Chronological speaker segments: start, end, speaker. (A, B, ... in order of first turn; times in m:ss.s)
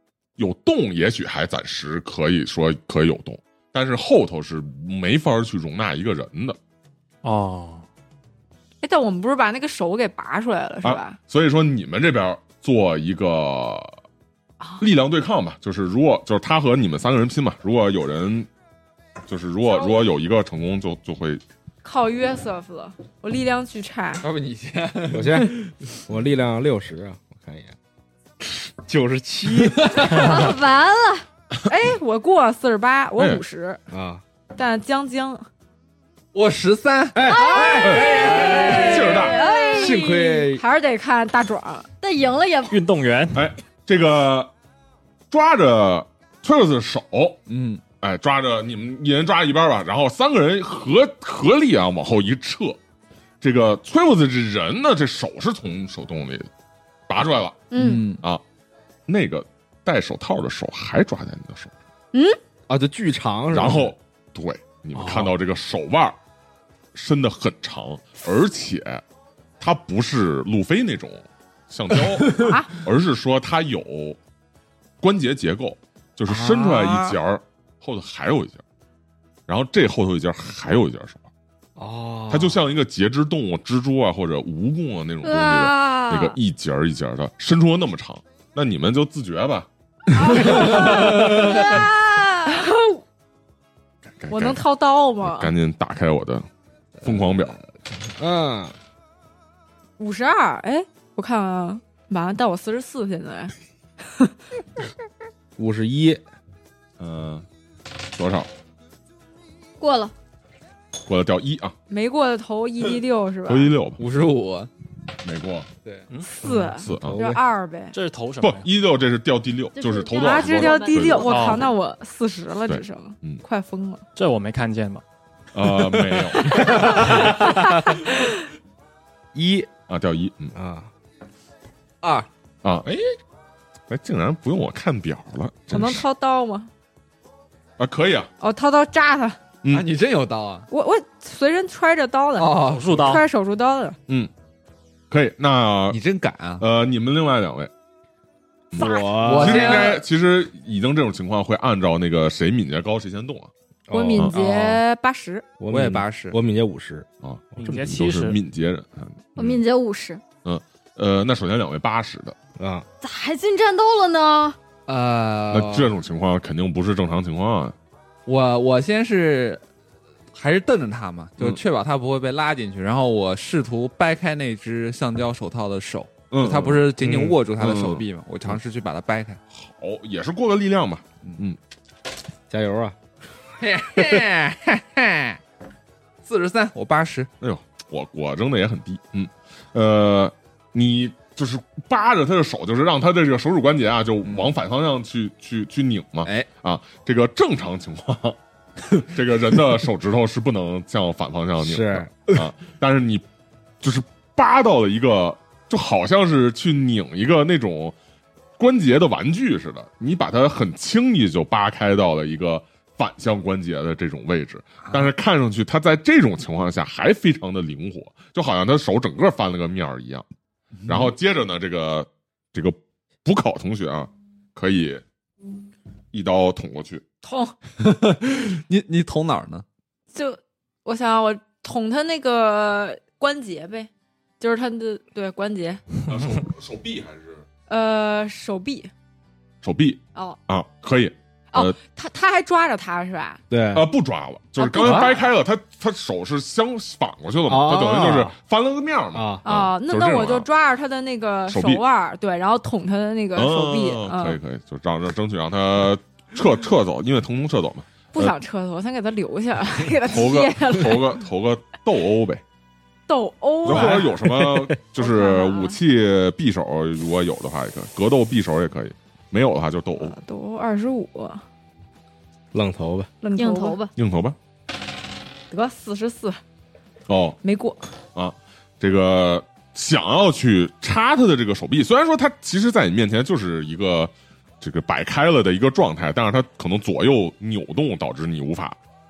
0:00.4-0:06.6 A
0:07.2-0:07.8 B
0:08.8-0:11.2 C
0:10.8-0:13.9 A
0:14.8-0:18.5 A
0:19.3-0:21.4 A
0:19.7-0:20.0 C
0:21.8-0:24.2 C
0:24.2-0:25.6 D
0:25.1-0:27.7 E
0:28.8-0:30.3 E
0:29.6-0:30.1 D
0:30.1-0:31.2 F
0:31.7-0:33.8 C
0:33.2-0:33.4 A
0:33.9-0:34.2 E
0:34.5-0:35.4 C
0:36.3-0:39.1 D
0:37.1-0:38.6 E
0:37.3-0:40.4 F
0:38.4-0:41.9 C
0:38.8-0:39.4 A
0:39.8-0:40.6 E
0:42.0-0:42.8 F
0:42.7-0:43.4 B
0:43.3-0:44.5 A
0:45.3-0:47.4 A
0:47.5-0:47.8 D
0:48.0-0:52.8 A
0:53.4-0:56.5 A
0:57.1-0:57.6 A
0:57.7-0:58.0 F
0:57.7-0:58.2 D
0:59.1-1:01.7 A
1:02.7-1:03.9 E
1:03.5-1:06.2 A
1:05.0-1:05.3 B
1:06.9-1:09.0 A
1:09.6-1:14.2 A
1:12.4-1:12.7 C
1:15.0-1:18.6 A
1:16.2-1:17.2 D
1:19.5-1:21.2 A
1:21.8-1:22.6 E
1:22.3-1:29.7 A
1:25.2-1:26.4 F
1:30.2-1:31.8 C
1:30.2-1:32.6 F
1:32.5-1:33.0 C
1:34.1-1:34.6 A
1:34.3-1:35.5 C
1:35.2-1:36.4 A
1:37.0-1:37.6 A
1:38.2-1:38.7 E
1:40.0-1:43.5 C
1:45.6-1:46.2 E
1:47.0-1:47.4 A
1:48.1-1:48.5 A
1:49.8-1:50.1 F
1:51.0-1:51.7 A
1:51.9-1:53.8 C
1:53.5-1:54.0 A
1:54.0-1:54.7 D
1:55.2-1:55.7 A
1:56.1-1:56.6 B
1:56.4-1:58.0 C
1:56.8-1:57.2 A
1:57.0-1:57.4 E
1:57.9-1:58.7 B
1:58.4-2:01.7 A
1:59.8-2:01.6 F
2:00.2-2:04.0 C
2:01.2-2:01.7 B
2:02.7-2:03.4 A
2:04.2-2:05.0 B
2:05.5-2:07.3 A
2:06.6-2:08.1 C
2:09.3-2:09.7 E
2:09.9-2:10.5 A
2:10.5-2:10.9 E
2:12.0-2:12.3 D
2:12.6-2:13.1 A
2:13.9-2:16.0 A
2:15.7-2:16.7 C
2:17.8-2:18.3 A
2:18.4-2:19.4 C
2:19.7-2:20.7 D
2:20.7-2:24.0 C
2:22.4-2:23.0 D
2:22.7-2:23.2 B
2:25.1-2:26.0 A
2:25.9-2:26.6 D
2:26.6-2:27.7 A
2:28.7-2:33.5 A
2:28.7-2:30.0 E
2:28.8-2:30.0 D
2:33.9-2:34.4 E
2:33.9-2:35.5 C
2:34.4-2:34.7 D
2:35.6-2:37.8 E
2:35.7-2:36.4 D
2:37.2-2:39.6 A
2:37.6-2:38.4 B
2:39.4-2:40.2 F
2:40.4-2:42.4 A
2:42.6-2:42.8 E
2:43.0-2:44.6 F
2:44.9-2:45.9 D
2:45.5-2:47.7 A
2:48.2-2:49.6 D
2:50.3-2:59.4 D
2:56.3-2:58.6 A
2:59.5-3:01.6 A
3:02.5-3:03.0 E
3:03.6-3:05.4 D
3:06.2-3:07.3 D
3:07.4-3:18.4 A
3:14.2-3:14.5 D
3:18.9-3:23.2 A
3:21.6-3:22.1 E
3:23.8-3:27.9 A
3:28.6-3:40.2 A
3:40.8-3:41.1 D
3:40.8-3:45.0 A
3:46.1-3:47.0 A
3:47.2-3:47.5 C
3:47.8-3:49.6 D
3:50.1-3:53.9 C
3:54.4-3:55.8 C
3:56.1-3:57.4 A
3:57.7-3:58.9 C
3:59.6-4:01.8 A
4:01.5-4:03.4 C
4:03.5-4:03.9 E
4:03.7-4:10.5 A
4:04.6-4:05.2 C
4:07.5-4:08.3 E
4:09.1-4:09.4 E
4:09.4-4:14.4 C
4:11.5-4:11.8 A
4:13.3-4:18.3 A
4:18.1-4:21.2 C
4:20.0-4:22.4 A
4:23.1-4:24.0 C
4:23.6-4:30.2 A
4:23.7-4:24.8 E
4:25.0-4:25.8 C
4:30.0-4:31.4 C
4:32.5-4:33.1 E
4:33.2-4:33.8 C
4:33.4-4:33.9 F
4:34.0-4:34.4 A
4:35.5-4:36.4 C
4:37.1-4:37.4 A
4:37.4-4:37.8 C
4:38.1-4:48.8 A